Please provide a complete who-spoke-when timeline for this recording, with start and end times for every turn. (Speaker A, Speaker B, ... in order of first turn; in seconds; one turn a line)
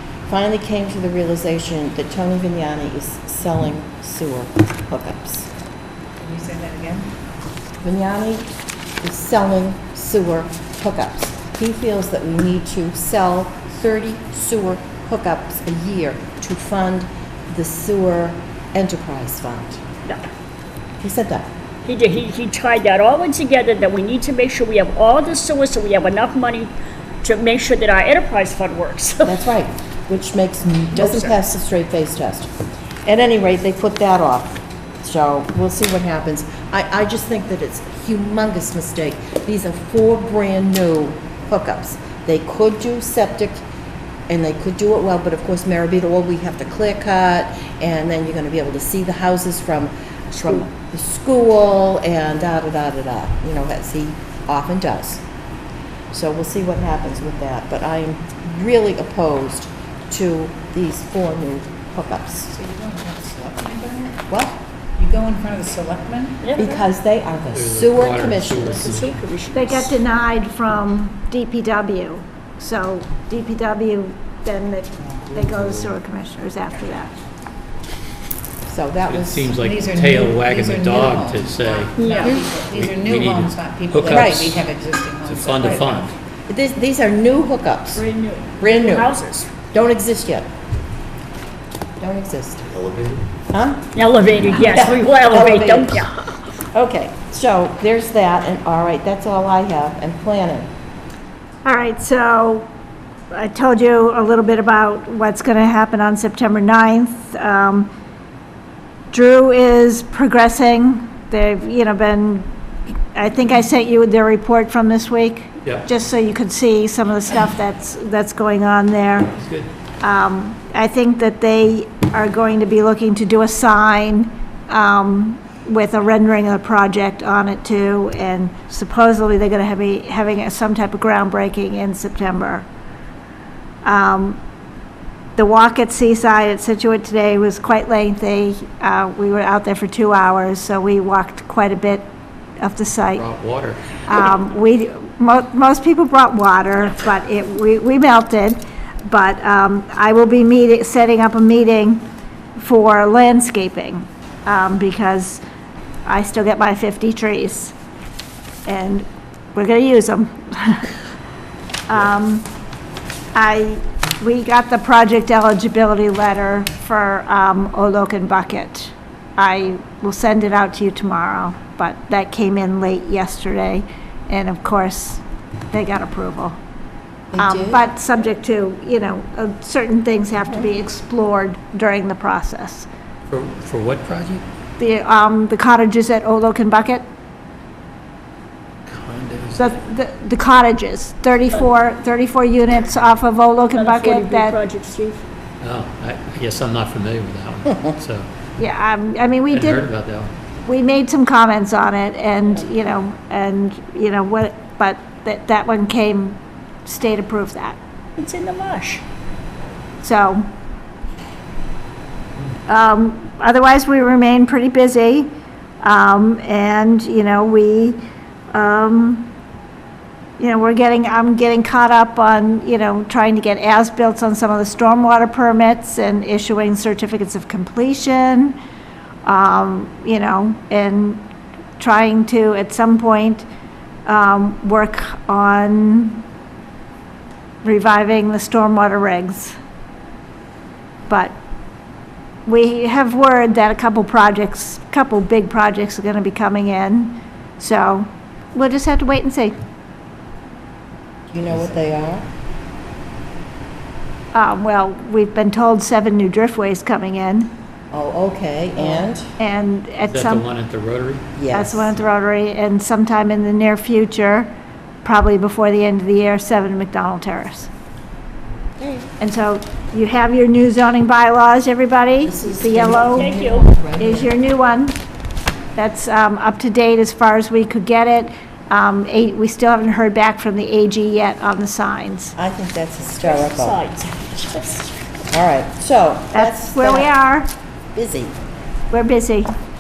Speaker A: 0.3-5.5
Speaker B: 6.2-7.1
Speaker A: 7.8-8.5
Speaker A: 9.0-19.8
Speaker A: 21.0-21.5
Speaker C: 21.9-26.7
Speaker C: 27.2-29.4
Speaker A: 29.2-32.5
Speaker C: 31.0-31.3
Speaker A: 33.0-43.6
Speaker A: 44.3-55.2
Speaker A: 56.1-62.5
Speaker B: 62.5-64.2
Speaker A: 64.3-64.6
Speaker B: 65.0-66.5
Speaker C: 66.4-66.8
Speaker A: 66.6-68.9
Speaker D: 67.5-69.2
Speaker C: 68.7-69.9
Speaker E: 69.5-77.1
Speaker A: 78.7-79.5
Speaker D: 79.1-81.9
Speaker B: 79.6-86.2
Speaker C: 82.0-82.5
Speaker D: 82.7-84.7
Speaker D: 85.2-86.1
Speaker A: 86.5-88.0
Speaker C: 87.9-89.5
Speaker A: 88.6-89.1
Speaker A: 89.7-90.5
Speaker A: 92.0-92.8
Speaker D: 92.8-93.2
Speaker A: 93.5-93.9
Speaker C: 94.0-96.1
Speaker A: 94.5-96.1
Speaker A: 96.7-100.7
Speaker E: 101.7-102.7
Speaker E: 103.3-107.9
Speaker E: 109.1-112.5
Speaker E: 113.1-119.3
Speaker D: 119.3-119.7
Speaker E: 120.0-132.7
Speaker E: 133.8-134.4
Speaker E: 135.4-142.1
Speaker E: 142.6-143.2
Speaker D: 143.1-143.8
Speaker E: 144.1-155.4
Speaker E: 156.1-157.8
Speaker E: 158.7-160.9
Speaker E: 161.9-162.5
Speaker E: 163.3-176.6
Speaker A: 177.3-177.8
Speaker E: 177.4-182.9
Speaker D: 183.3-184.4
Speaker E: 184.8-187.0
Speaker D: 188.9-189.7
Speaker E: 189.6-194.6
Speaker C: 193.7-195.2
Speaker D: 195.6-198.3
Speaker E: 198.6-199.9
Speaker D: 199.5-200.3
Speaker E: 200.6-207.8
Speaker C: 208.2-209.0
Speaker E: 210.0-210.5
Speaker E: 212.7-215.3
Speaker E: 215.8-218.0
Speaker E: 218.5-219.3
Speaker E: 220.4-228.6
Speaker E: 229.2-231.2
Speaker E: 231.8-233.4
Speaker E: 234.1-236.2
Speaker E: 237.6-239.6
Speaker E: 241.1-241.3
Speaker E: 242.5-249.5
Speaker A: 251.3-252.3
Speaker E: 254.3-257.5
Speaker A: 257.9-259.3
Speaker E: 259.4-260.5
Speaker D: 260.1-261.3
Speaker A: 261.4-261.9
Speaker E: 261.5-264.5
Speaker E: 265.0-267.7
Speaker A: 268.8-269.1
Speaker E: 269.2-273.3
Speaker A: 272.2-274.3
Speaker C: 272.9-273.7
Speaker E: 274.0-275.0
Speaker E: 275.8-282.4
Speaker A: 282.4-283.8
Speaker C: 283.2-284.9
Speaker A: 285.3-287.1
Speaker E: 286.3-287.5
Speaker A: 287.9-288.4
Speaker E: 288.9-289.5